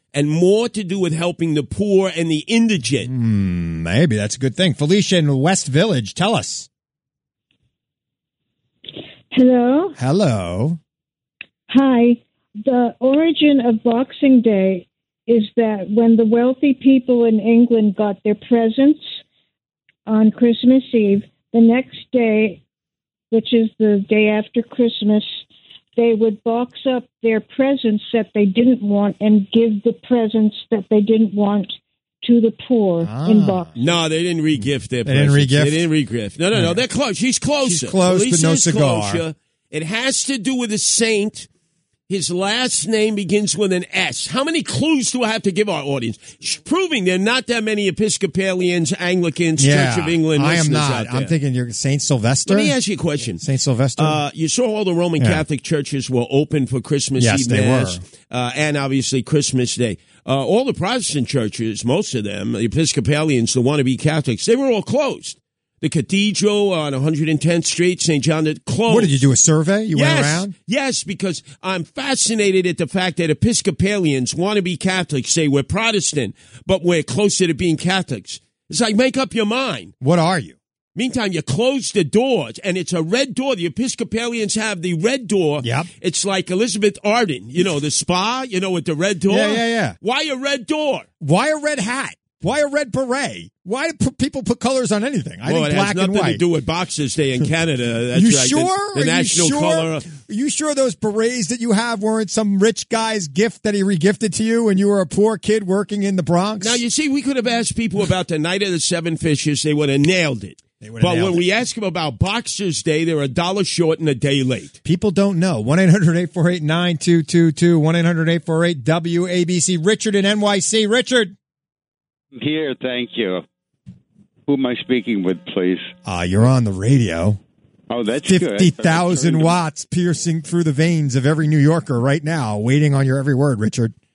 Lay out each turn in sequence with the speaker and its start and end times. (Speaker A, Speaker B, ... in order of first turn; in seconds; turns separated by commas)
Speaker A: 0.1-3.1, Speaker B: 3.0-6.7, Speaker C: 9.3-10.0, Speaker B: 10.0-10.8, Speaker C: 11.7-19.1, Speaker C: 20.1-22.6, Speaker C: 23.3-25.4, Speaker C: 25.9-33.7, Speaker B: 33.0-33.7, Speaker A: 33.7-41.5, Speaker B: 35.0-35.8, Speaker B: 36.5-36.8, Speaker B: 37.6-39.2, Speaker A: 42.1-51.3, Speaker B: 49.6-52.8, Speaker A: 52.5-53.4, Speaker B: 53.4-54.2, Speaker A: 54.0-69.2, Speaker B: 57.2-58.0, Speaker B: 68.9-70.5, Speaker A: 69.9-79.9, Speaker B: 80.0-80.6, Speaker A: 80.9-91.0, Speaker B: 85.6-85.9, Speaker B: 89.3-90.0, Speaker B: 91.2-96.4, Speaker A: 95.5-100.1, Speaker B: 98.1-106.8, Speaker A: 106.6-114.8, Speaker B: 110.8-111.4, Speaker B: 114.8-121.3, Speaker D: 122.3-123.4, Speaker D: 124.5-125.9, Speaker B: 126.0-127.4, Speaker D: 127.9-129.6, Speaker B: 128.2-133.9